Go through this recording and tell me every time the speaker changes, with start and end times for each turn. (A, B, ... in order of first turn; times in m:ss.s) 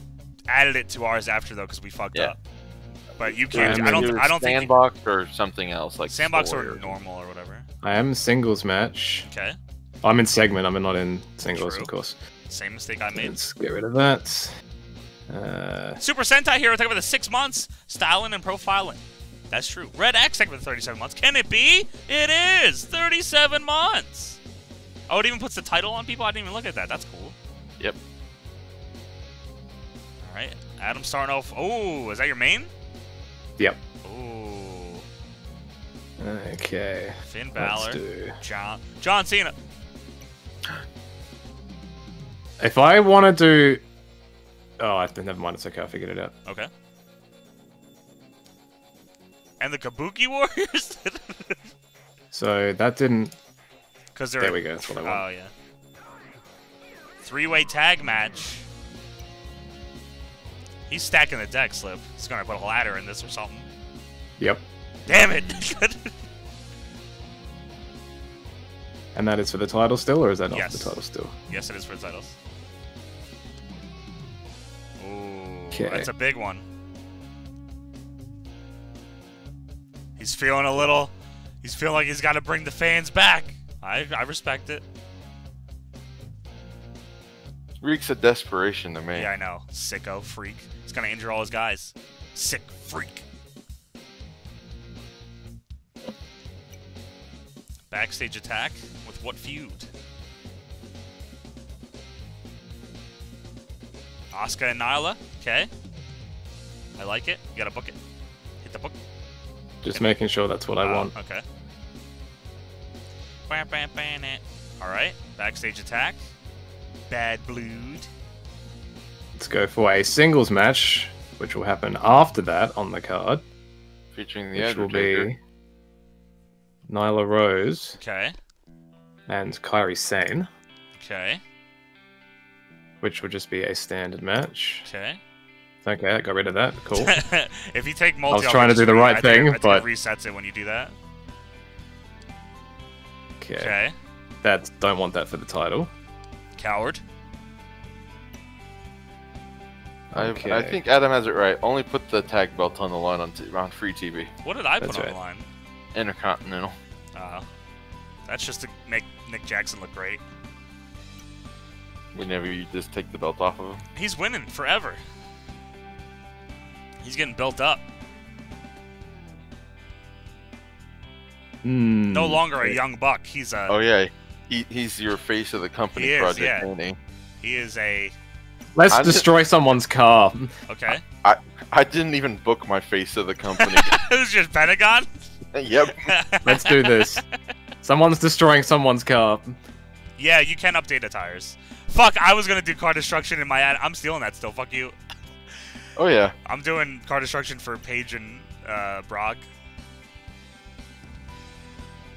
0:00.5-0:02.4 A
0:03.1-0:06.9 B
0:03.2-0:04.7 A
0:03.5-0:04.1 C
0:06.1-0:07.7 A
0:07.8-0:09.3 C
0:09.3-0:09.6 A
0:10.0-0:12.2 C
0:11.5-0:11.9 A
0:12.5-0:13.3 A
0:13.1-0:14.5 C
0:15.3-0:16.0 C
0:16.0-0:24.4 A
0:25.1-0:27.3 A
0:30.2-0:32.7 A
0:34.0-0:35.0 A
0:36.2-0:38.4 C
0:37.2-0:39.5 A
0:42.6-0:43.8 C
0:44.8-0:46.3 C
0:49.6-0:51.7 A
0:52.3-0:53.3 C
0:54.1-0:55.5 A
0:54.4-0:55.2 C
0:57.2-0:58.6 A
1:00.9-1:03.7 A
1:05.1-1:06.1 A
1:09.1-1:11.3 C
1:10.5-1:12.3 A
1:15.0-1:16.6 A
1:15.7-1:16.1 C
1:20.2-1:24.8 A
1:27.8-1:29.3 B
1:29.2-1:33.2 A
1:37.9-1:39.9 A
1:44.3-1:45.7 A
1:47.0-1:48.0 A
1:48.6-1:48.9 A
1:49.8-1:51.1 C
1:50.8-1:51.4 A
1:53.5-1:56.2 A
1:57.1-1:58.1 A
1:59.4-2:03.4 C
2:04.1-2:05.3 B
2:04.6-2:05.4 C
2:06.9-2:08.0 C
2:08.0-2:08.4 A
2:09.3-2:10.5 C
2:10.9-2:11.4 A
2:13.0-2:14.8 C
2:14.8-2:15.2 A
2:15.8-2:17.2 C
2:16.9-2:20.9 A
2:18.3-2:19.8 C
2:23.4-2:23.7 C
2:23.6-2:23.9 A
2:24.4-2:25.9 C
2:26.6-2:27.0 A
2:30.1-2:30.8 C
2:30.1-2:34.3 B
2:34.4-2:35.4 A
2:34.8-2:35.1 C
2:35.9-2:36.8 B
2:37.1-2:37.4 A
2:38.3-2:40.2 A
2:42.1-2:43.8 B
2:44.0-2:45.0 A
2:47.0-2:47.8 A
2:51.6-2:52.4 C
2:52.1-2:53.8 A
2:53.7-2:57.0 B
2:56.0-2:56.7 A
2:57.4-2:58.1 A
2:58.8-3:00.5 C
2:58.9-2:59.2 B
3:00.7-3:01.0 A
3:01.2-3:04.0 B
3:03.6-3:05.3 A
3:05.5-3:06.1 B
3:06.0-3:07.2 A
3:06.4-3:07.2 C
3:07.8-3:09.6 C
3:10.2-3:15.0 A
3:16.0-3:16.3 B
3:16.4-3:19.4 A